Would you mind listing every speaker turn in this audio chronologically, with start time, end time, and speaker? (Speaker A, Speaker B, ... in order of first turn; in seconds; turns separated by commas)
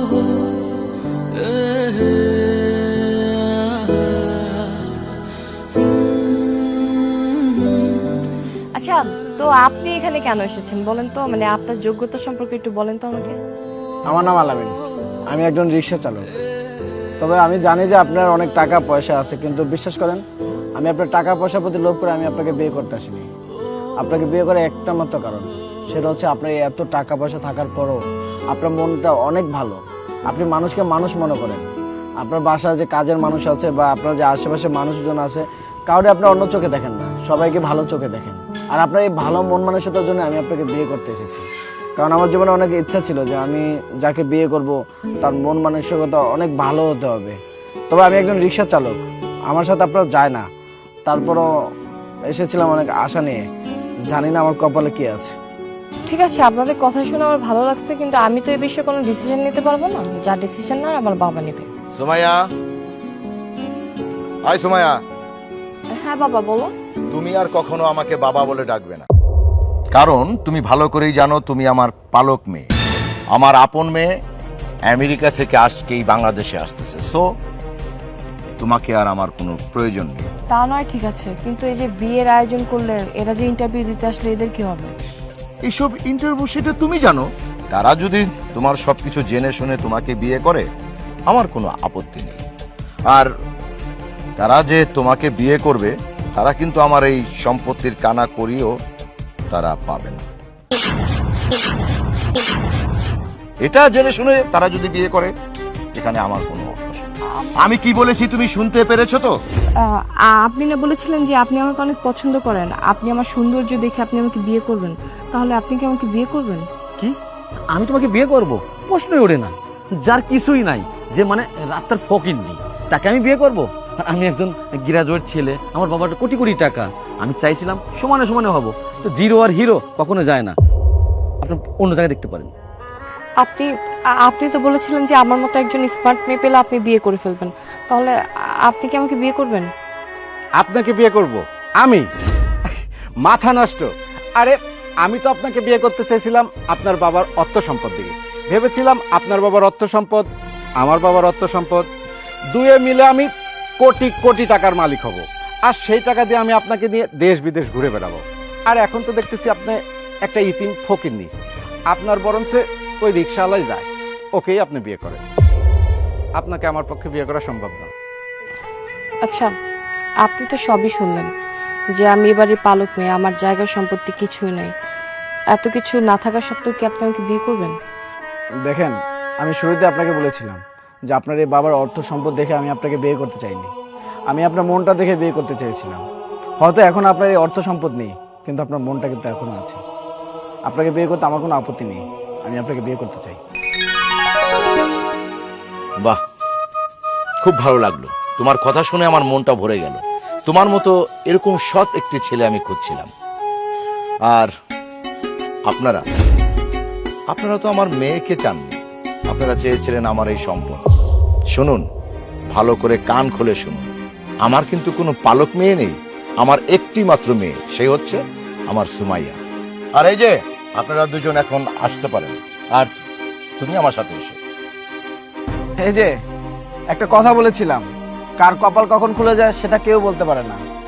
Speaker A: 8.8-13.4, Speaker B: 14.1-14.7, Speaker B: 15.3-16.3, Speaker B: 17.2-20.2, Speaker B: 20.8-23.3, Speaker B: 24.0-41.5, Speaker B: 42.0-47.4, Speaker B: 47.9-50.5, Speaker B: 51.1-51.5, Speaker B: 52.3-53.4, Speaker B: 54.1-55.4, Speaker A: 56.1-61.7, Speaker C: 62.0-62.4, Speaker C: 64.5-65.0, Speaker A: 65.9-66.7, Speaker C: 67.1-69.1, Speaker C: 69.9-72.7, Speaker C: 73.3-74.2, Speaker C: 74.9-77.3, Speaker C: 78.6-80.3, Speaker A: 80.5-85.0, Speaker C: 85.7-90.7, Speaker C: 91.3-92.4, Speaker C: 94.4-98.7, Speaker C: 99.5-100.2, Speaker C: 103.6-105.3, Speaker C: 105.9-109.3, Speaker A: 109.8-116.7, Speaker D: 117.7-130.6, Speaker D: 131.4-132.5, Speaker A: 133.4-139.7, Speaker E: 140.6-142.1, Speaker E: 142.7-150.3, Speaker E: 150.8-151.9, Speaker E: 152.5-161.3, Speaker E: 161.9-165.2, Speaker E: 166.4-167.9, Speaker A: 169.2-169.5, Speaker A: 170.2-171.3, Speaker A: 172.0-174.7, Speaker A: 175.5-177.8, Speaker B: 178.7-183.7, Speaker B: 184.3-186.1, Speaker B: 186.6-189.8, Speaker B: 190.7-193.4, Speaker C: 197.4-203.1, Speaker C: 205.7-206.0, Speaker C: 207.3-208.8, Speaker C: 209.3-210.9, Speaker C: 211.5-211.8, Speaker C: 212.5-213.9, Speaker C: 214.4-219.4, Speaker C: 220.0-222.9, Speaker C: 223.6-224.4, Speaker B: 225.8-226.1, Speaker B: 226.9-227.9, Speaker B: 228.4-230.6